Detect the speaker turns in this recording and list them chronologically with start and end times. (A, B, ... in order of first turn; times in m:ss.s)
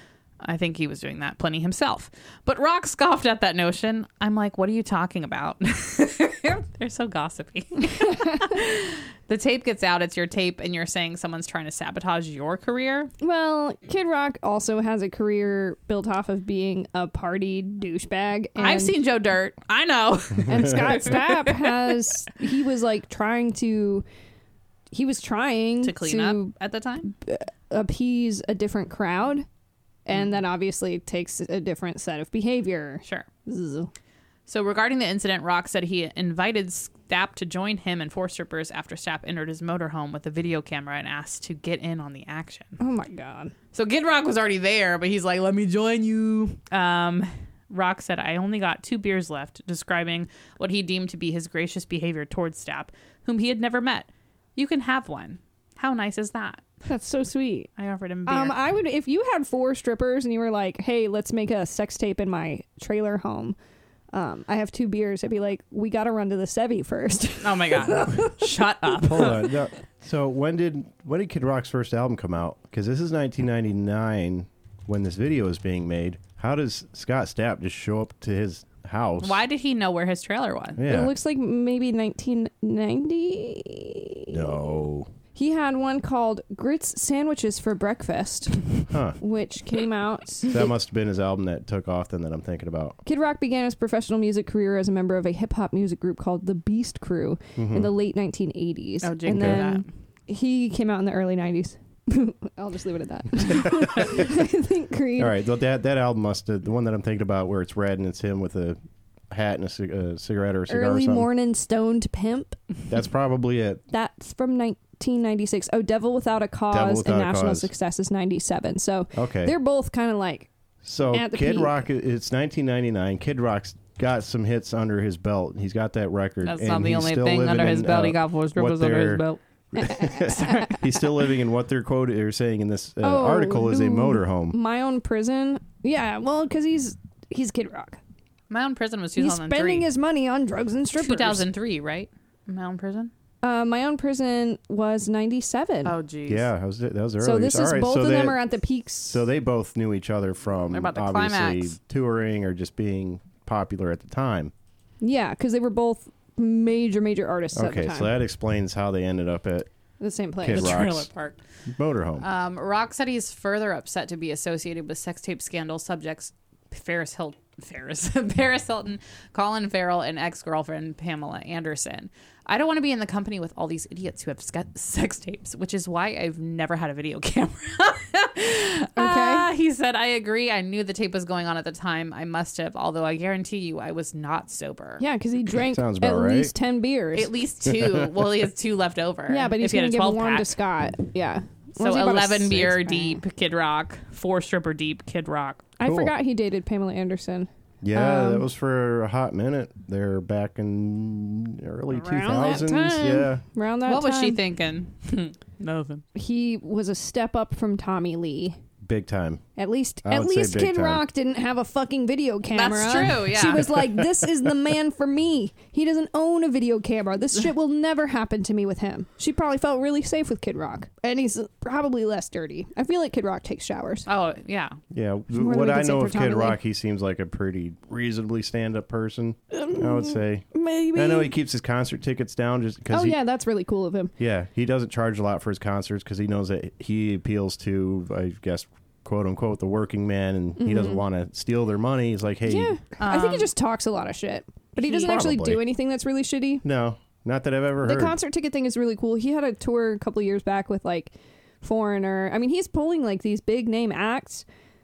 0:00.4-0:13.1 A
0:07.9-0:08.6 B
0:13.2-0:18.9 B
0:18.6-0:22.0 A
0:20.4-0:24.0 B
0:24.9-0:26.5 B
0:25.8-0:27.1 A
0:27.1-0:29.4 B
0:30.0-0:33.9 B
0:34.5-0:42.8 A
0:42.8-0:43.5 B
0:43.7-0:56.6 A
0:56.8-0:57.7 B
0:57.8-0:58.6 A
0:58.3-1:03.6 B
1:04.1-1:08.5 B
1:07.4-1:09.5 A
1:09.0-1:19.4 C
1:19.2-1:20.8 A
1:20.8-1:21.1 C
1:20.9-1:24.7 B
1:24.3-1:25.1 C
1:25.3-1:30.7 B
1:28.9-1:29.2 C
1:30.5-1:33.0 C
1:33.0-1:45.3 B
1:37.6-1:37.9 C
1:39.0-1:39.8 A
1:39.3-1:39.6 C
1:43.6-1:44.3 C
1:45.2-1:48.8 C
1:49.3-1:51.3 C
1:50.7-1:52.6 B
1:52.9-1:53.8 C
1:53.9-2:00.5 B
1:56.7-1:57.7 C
1:59.1-1:59.5 C
2:00.8-2:09.2 C
2:01.1-2:01.8 B
2:06.4-2:09.4 A
2:09.7-2:14.6 C
2:09.8-2:10.7 B
2:10.4-2:10.7 A
2:13.0-2:18.0 B
2:18.5-2:19.9 A
2:19.2-2:21.5 B
2:21.0-2:23.1 A
2:23.4-2:25.9 B
2:25.8-2:26.5 A
2:26.3-2:28.4 C
2:27.2-2:29.2 B
2:29.1-2:34.5 C
2:30.7-2:31.7 A
2:35.0-2:38.1 B
2:37.5-2:39.7 C
2:40.0-2:40.7 B
2:40.4-2:41.1 C
2:40.4-2:41.4 A
2:41.7-2:42.3 C
2:42.2-3:05.0 A
2:59.0-2:59.5 B
3:05.0-3:07.3 B
3:05.5-3:06.5 C
3:07.1-3:10.5 A
3:07.6-3:08.1 C
3:09.3-3:13.2 B
3:11.8-3:15.7 A
3:15.8-3:18.5 B
3:15.8-3:16.1 C
3:17.8-3:23.4 C
3:21.9-3:24.4 B
3:23.8-3:26.0 A
3:26.1-3:28.6 B
3:28.8-3:29.4 C
3:29.6-3:44.1 B
3:30.0-3:31.0 C
3:32.5-3:33.8 A
3:44.1-3:44.8 A
3:44.9-3:53.2 C
3:45.3-3:46.6 B
3:49.6-3:51.3 B
3:52.9-3:54.1 B
3:54.2-4:02.7 C
4:00.6-4:01.0 B
4:02.4-4:06.6 B
4:03.0-4:03.5 A
4:04.8-4:05.1 A
4:05.0-4:05.6 C
4:06.6-4:08.2 C
4:07.8-4:14.4 B